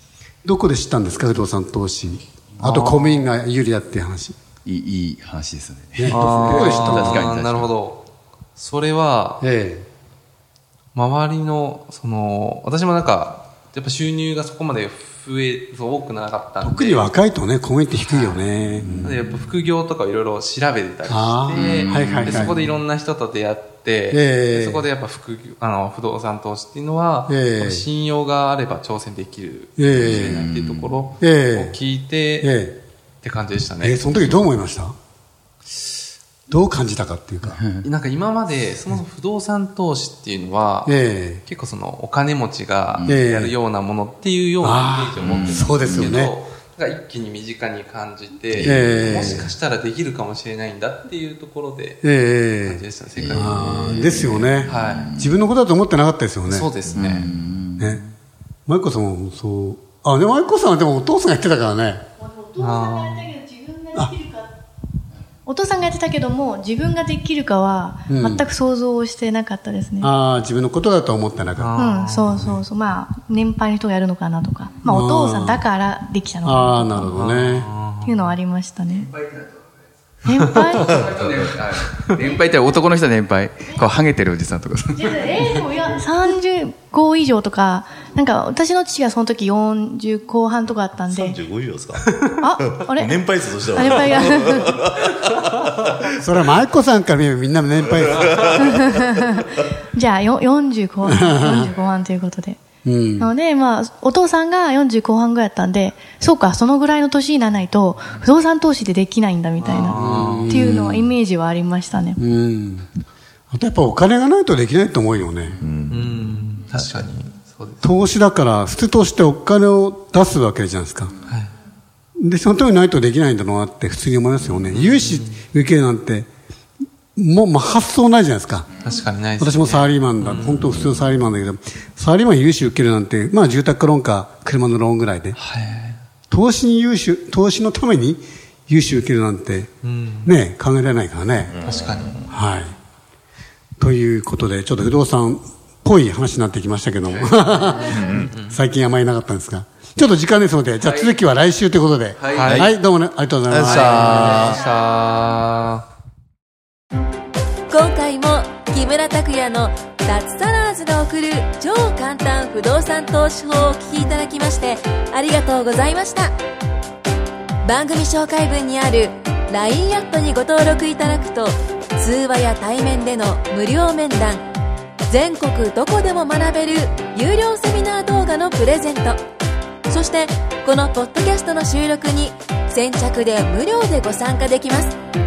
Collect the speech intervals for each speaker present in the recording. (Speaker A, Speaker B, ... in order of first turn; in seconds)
Speaker A: 0.4-4.4, 6.0-7.3, 9.4-9.9, 16.6-19.2, 21.1-22.7, 24.1-24.9, 27.3-27.9, 29.8-30.4, 31.2-31.8, 32.4-32.8, 33.8-35.0, 36.5-37.6, 40.9-41.4, 43.0-43.6, 44.6-46.4, 48.6-49.5, 52.0-57.0, 57.8-58.0, 58.7-62.1, 68.1-68.4, 70.0-71.9, 74.8-75.6, 76.4-77.7, 96.2-98.6, 101.1-101.7, 102.8-103.3, 109.9-111.1, 112.2-112.9, 113.5-115.6, 117.8-121.2, 122.2-126.3, 127.2-128.7, 129.4-135.4, 136.3-139.7, 140.2-141.6, 142.3-142.8, 143.8-154.5
Speaker B: 2.6-3.3, 6.1-8.1, 8.6-9.5, 10.9-17.1, 17.9-18.5, 19.0-32.6, 33.2-34.1, 37.8-52.0, 52.6-54.0, 54.7-55.1, 56.5-57.3, 62.6-63.4, 71.5-72.6, 77.1-78.4, 109.6-110.7, 115.9-118.0, 121.2-121.6, 124.7-125.4, 128.8-130.9, 135.3-136.1, 139.8-140.3, 141.6-142.3, 148.1-148.6, 152.3-152.7, 153.6-155.9
Speaker C: 4.7-7.7, 18.8-19.2, 21.6-22.5, 30.0-31.0, 43.0-43.2, 45.2-46.2, 48.5-49.4, 53.2-55.3, 56.9-58.0, 78.9-79.6, 80.7-85.6, 150.8-151.2, 152.2-152.5
Speaker D: 62.2-64.5, 65.5-70.1, 71.8-77.2, 78.0-79.1, 80.3-81.1, 85.0-91.4, 92.3-94.8, 98.6-102.6, 103.2-110.0, 110.5-112.2
Speaker E: 91.1-95.9, 98.0-99.1, 115.6-116.0, 130.5-130.8, 141.5-142.3, 147.8-148.3, 153.5-154.6
Speaker F: 157.7-166.4, 167.6-174.4, 175.1-179.2, 179.9-185.0